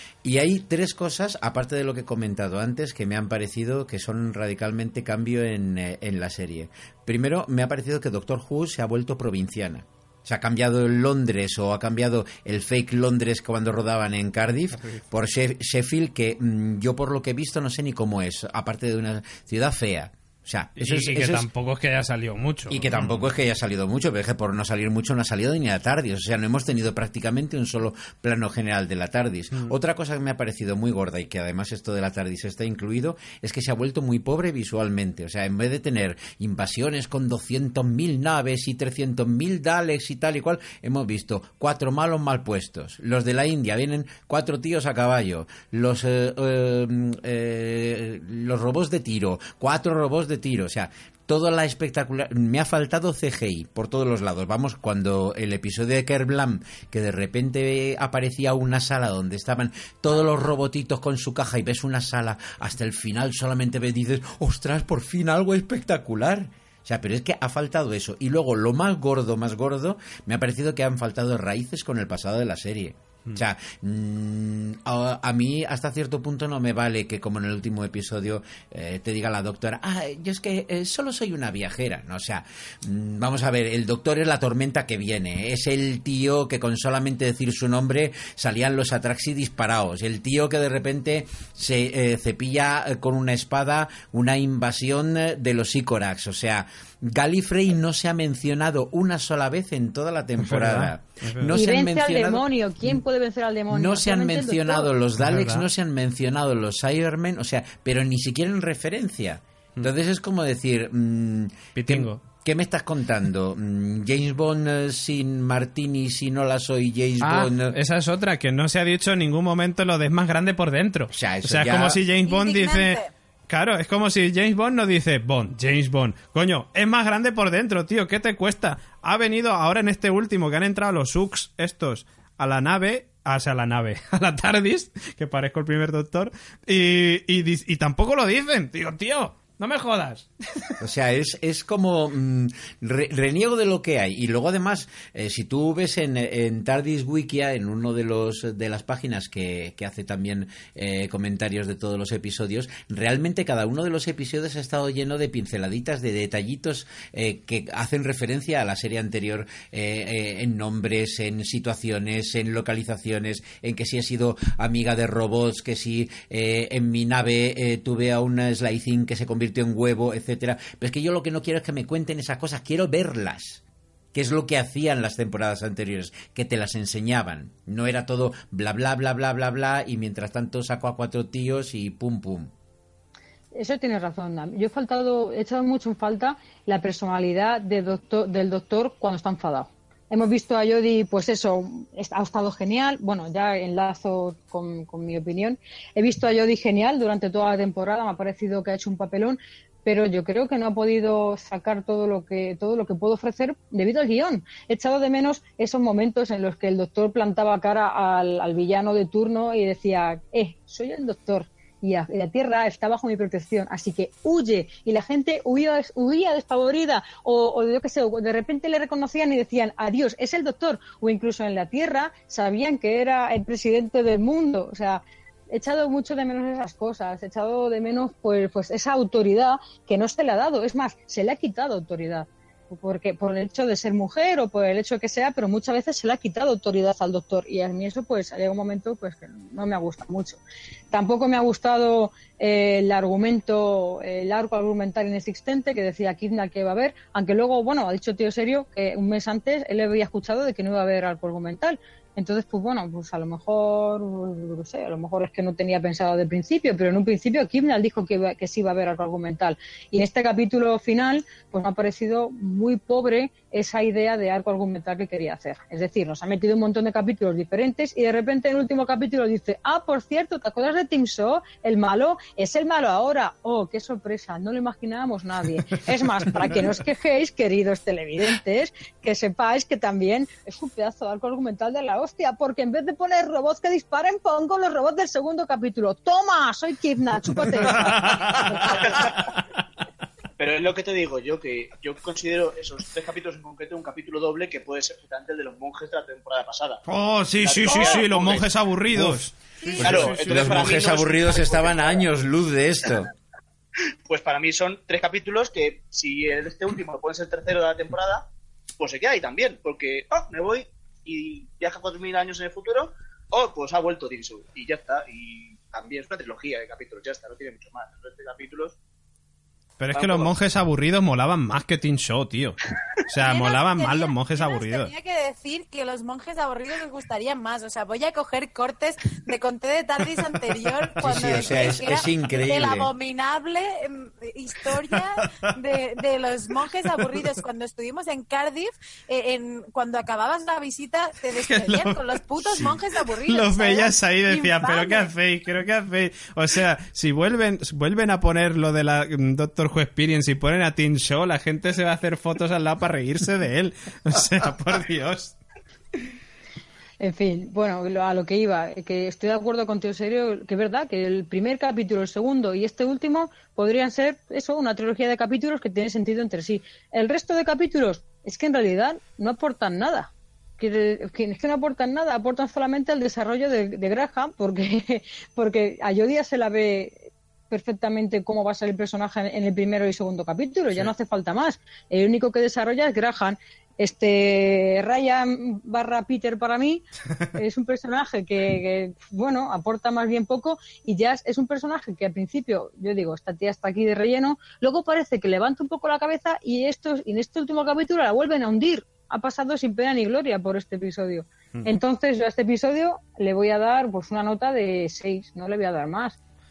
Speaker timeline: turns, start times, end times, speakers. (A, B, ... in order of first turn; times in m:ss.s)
0:00.2-0:21.5 A
0:20.8-0:23.2 B
0:22.7-1:43.0 A
1:40.4-1:41.6 B
1:41.5-1:44.9 C
1:43.7-1:57.8 A
1:45.2-1:45.7 B
1:51.8-1:52.2 B
1:57.2-2:20.8 B
2:01.1-2:02.0 A
2:02.2-2:03.1 D
2:20.8-2:53.6 A
2:54.1-3:02.5 A
3:03.5-4:00.4 C
4:00.9-4:48.7 C
4:36.4-4:36.7 B
4:47.8-4:49.2 B
4:48.4-4:49.3 E
4:50.4-4:56.8 E
4:56.9-5:00.8 B
4:57.4-4:58.5 E
4:59.0-5:03.1 A
4:59.8-5:01.9 E
5:04.1-5:08.3 E
5:08.8-5:18.8 E
5:19.8-5:24.9 B
5:19.9-5:20.3 E
5:23.2-5:45.1 D
5:31.0-5:32.9 A
5:34.8-5:35.4 B
5:41.3-5:55.4 B
5:57.0-6:46.2 C